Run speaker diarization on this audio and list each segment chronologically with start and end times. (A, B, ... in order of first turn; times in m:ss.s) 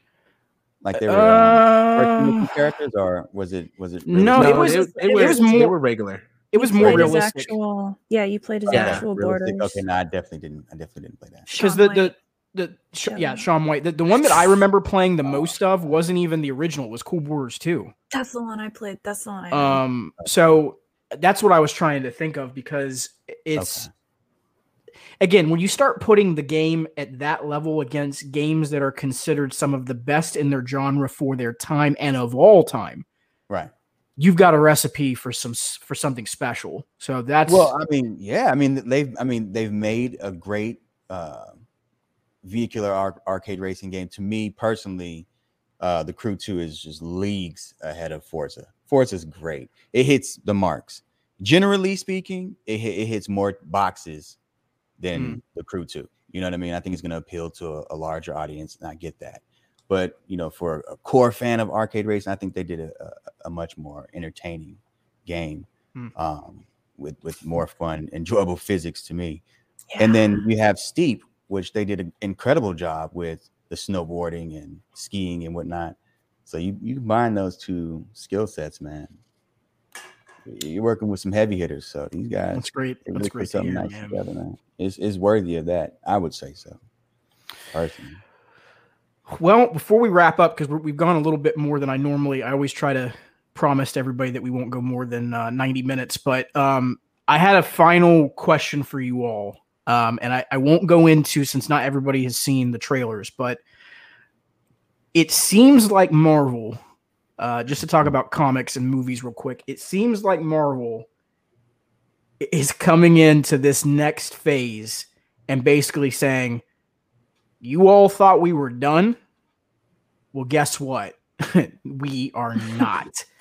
0:00.8-0:04.7 A
0:01.0-0:02.6 B
0:04.1-0:05.8 B
0:04.3-0:07.0 C
0:04.7-0:05.7 D
0:06.5-0:07.6 B
0:06.6-0:09.8 D
0:08.7-0:11.5 A
0:08.7-0:09.0 C
0:11.5-0:12.1 D
0:11.5-0:17.9 B
0:13.1-0:13.5 D
0:18.1-0:19.8 D
0:19.5-0:23.9 B
0:23.6-0:23.9 A
0:25.2-0:33.0 B
0:34.2-0:37.7 B
0:37.5-0:41.6 A
0:42.4-0:45.3 A
0:45.8-0:54.4 A
0:55.0-1:09.4 A
0:55.2-0:55.4 B
1:09.9-1:10.4 D
1:10.0-1:19.2 A
1:20.4-1:26.8 A
1:22.5-1:24.2 B
1:27.7-1:28.2 A
1:29.3-1:43.6 B
1:45.1-1:46.8 B
1:47.4-1:51.1 B
1:52.4-1:56.6 B
1:57.6-1:59.2 B
2:00.3-2:03.3 B